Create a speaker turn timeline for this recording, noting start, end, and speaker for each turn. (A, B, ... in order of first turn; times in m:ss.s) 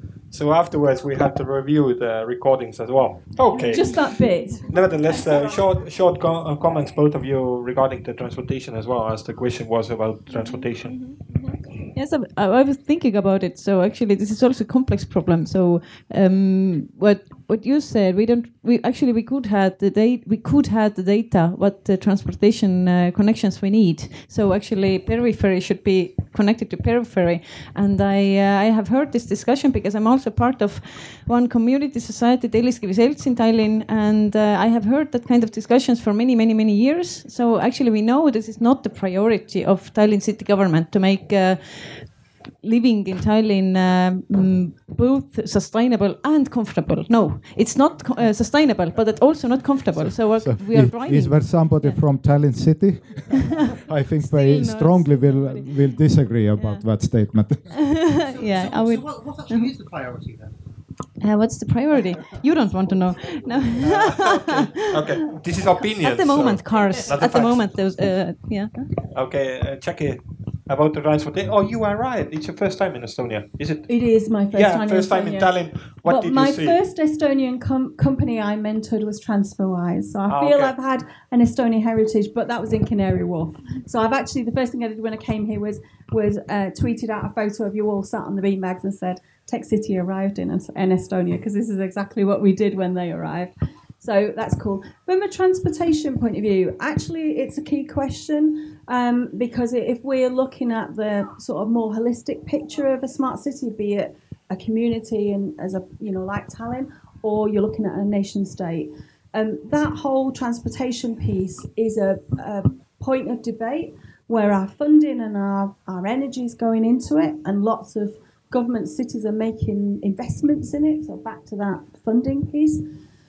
0:00.3-0:11.0 A
0:03.7-0:05.6 B
0:10.3-0:11.2 C
0:11.9-0:52.0 C
0:49.9-0:57.8 D
0:53.3-0:55.9 C
0:56.6-0:56.8 C
0:57.7-0:59.7 C
0:57.8-1:00.6 E
1:01.2-1:05.3 C
1:03.8-1:07.8 A
1:06.0-1:08.9 C
1:09.1-1:13.9 A
1:13.9-2:02.9 B
1:14.5-1:16.8 A
1:20.3-1:20.7 A